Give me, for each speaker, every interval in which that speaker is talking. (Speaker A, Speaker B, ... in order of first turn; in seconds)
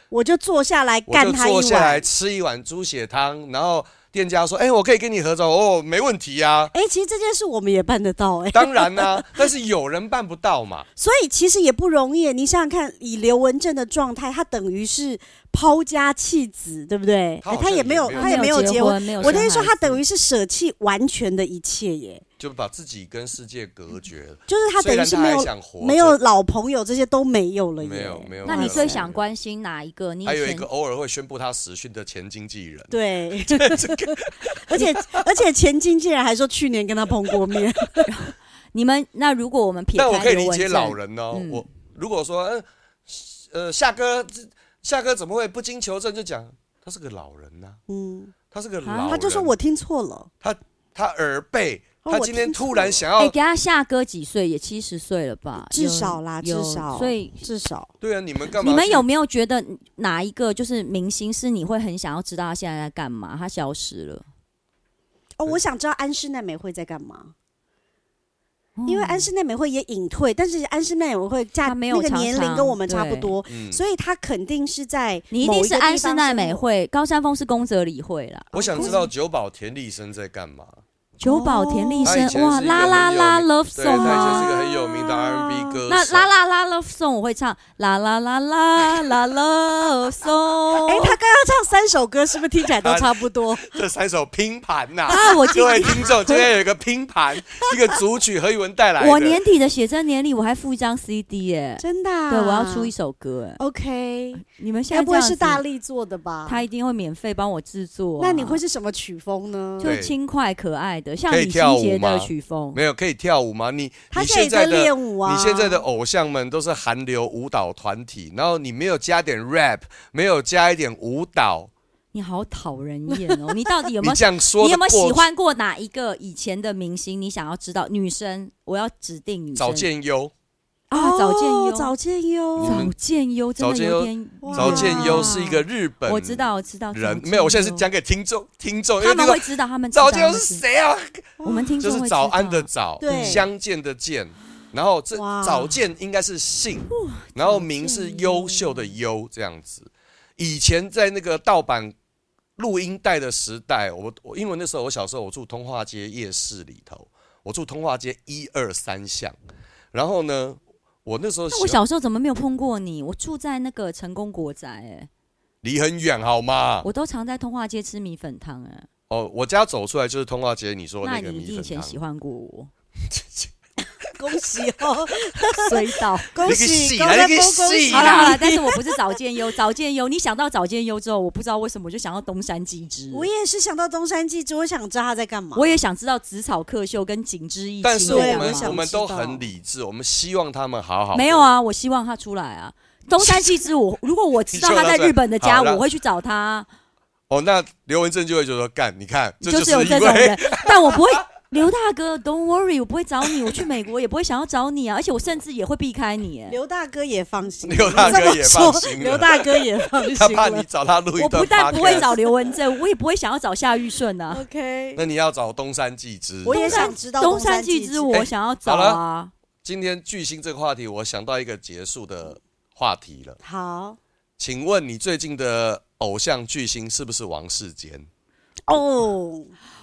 Speaker A: 0.1-2.1, 6.7-9.5, 11.0-22.2, 24.5-29.1, 32.9-38.1, 47.9-48.4, 48.9-50.3, 52.0-53.0, 55.6-57.9, 65.4-67.3, 68.9-76.6, 78.7-79.1, 81.2-82.3, 84.0-85.8, 90.8-93.8, 95.1-96.5, 101.8-102.9, 103.6-106.7, 108.2-109.9, 114.1-115.8, 130.9-132.9, 134.4-135.6, 141.4-141.7, 143.0-143.5, 145.1-145.8, 174.1-179.2, 183.1-185.8, 188.1-189.5, 206.5-210.7, 211.8-212.2, 214.3-215.0, 216.4-218.3, 223.4-224.0, 228.7-229.5
Speaker B: 1.1-6.7, 8.5-10.9, 17.4-19.5, 22.4-26.2, 27.8-29.2, 30.2-32.9, 33.5-35.2, 40.0-47.8, 48.5-49.5, 50.4-53.3, 58.0-59.1, 73.5-73.8, 78.5-80.8, 82.0-86.3, 92.8-99.4, 109.8-110.1, 111.3-121.7, 124.0-125.3, 129.6-130.3, 132.6-132.9, 133.6-151.9, 152.6-159.4, 159.9-161.8, 165.6-166.9, 169.1-172.0, 173.1-173.5, 176.4-178.4, 187.8-191.5, 193.2-193.5, 194.5-195.8, 197.3-201.0, 207.6-212.1, 215.0-216.9, 218.1-219.0, 219.6-223.4, 224.4-228.1
Speaker C: 18.1-20.0, 28.5-30.7, 38.1-41.6, 53.2-57.4, 58.6-64.2, 68.8-69.3, 71.6-73.3, 75.3-79.0, 81.2-84.5, 85.9-91.2, 95.1-96.0, 99.0-103.6, 104.4-105.6, 106.5-108.6, 109.8-112.8, 122.1-129.9, 130.9-131.9, 132.6-137.9, 139.0-140.6, 141.4-143.4, 146.9-148.9, 161.5-165.1, 166.8-168.9, 171.0-172.7, 175.6-176.3, 177.9-183.3, 185.6-188.8, 191.1-196.7, 199.4-206.6, 211.2-214.4, 216.5-219.3